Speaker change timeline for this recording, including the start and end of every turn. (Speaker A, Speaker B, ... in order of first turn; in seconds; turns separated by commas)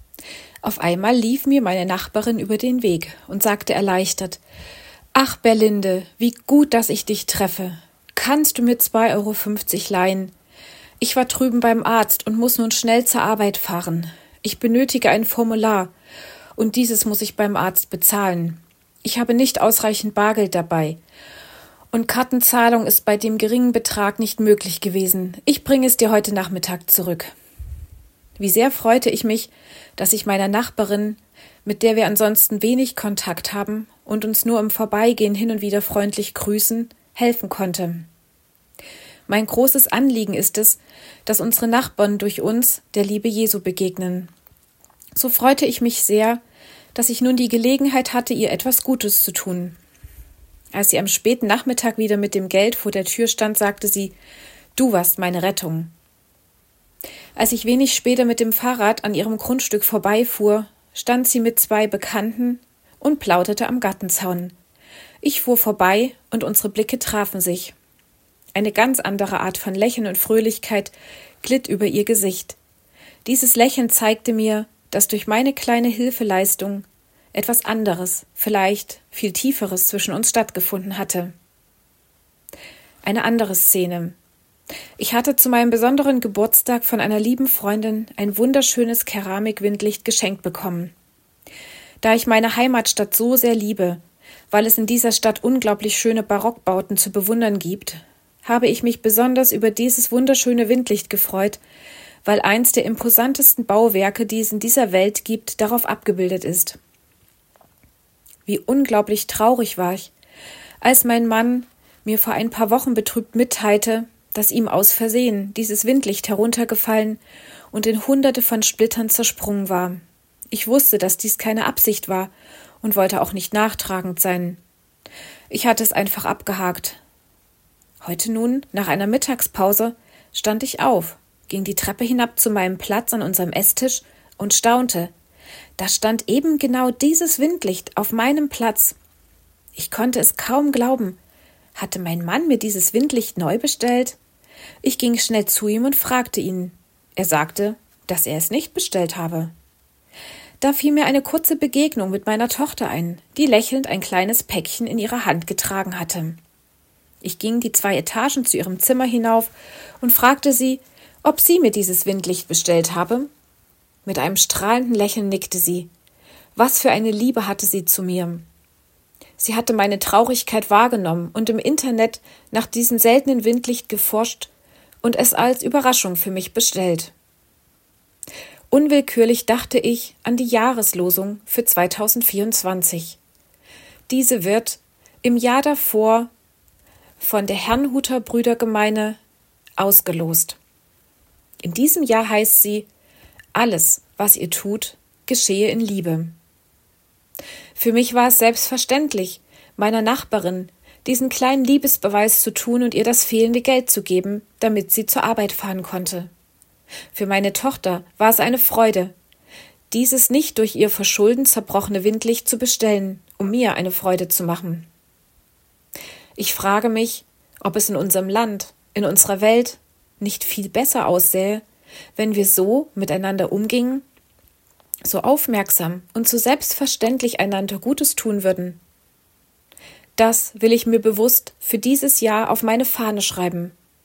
Speaker A: 0.6-4.4, Speaker A: 5.1-10.3, Speaker A: 11.0-15.9, Speaker A: 16.6-21.0, Speaker A: 21.9-27.3, Speaker A: 28.4-38.1, Speaker A: 39.3-44.3, Speaker A: 45.1-46.4, Speaker A: 47.0-49.8, Speaker A: 50.7-54.1, Speaker A: 54.8-55.9, Speaker A: 57.4-64.5, Speaker A: 65.2-67.8, Speaker A: 68.5-72.6, Speaker A: 73.2-81.3, Speaker A: 83.0-84.2, Speaker A: 85.0-90.9, Speaker A: 92.0-101.6, Speaker A: 102.2-106.8, Speaker A: 108.5-110.1, Speaker A: 110.8-117.2, Speaker A: 117.7-124.6, Speaker A: 125.5-127.0, Speaker A: 128.0-135.1, Speaker A: 135.8-139.0, Speaker A: 139.8-141.2, Speaker A: 141.8-144.2, Speaker A: 144.8-149.5, Speaker A: 150.6-156.4, Speaker A: 157.2-163.3, Speaker A: 164.1-165.9, Speaker A: 166.6-168.4, Speaker A: 169.4-174.5, Speaker A: 175.0-177.1, Speaker A: 178.7-183.2, Speaker A: 184.1-186.3, Speaker A: 187.2-189.2, Speaker A: 189.8-190.6, Speaker A: 191.6-192.9, Speaker A: 193.5-196.3, Speaker A: 197.8-206.3, Speaker A: 207.1-209.1, Speaker A: 209.9-214.9, Speaker A: 216.4-221.6, Speaker A: 222.2-224.1, Speaker A: 225.0-228.8, Speaker A: 230.2-233.8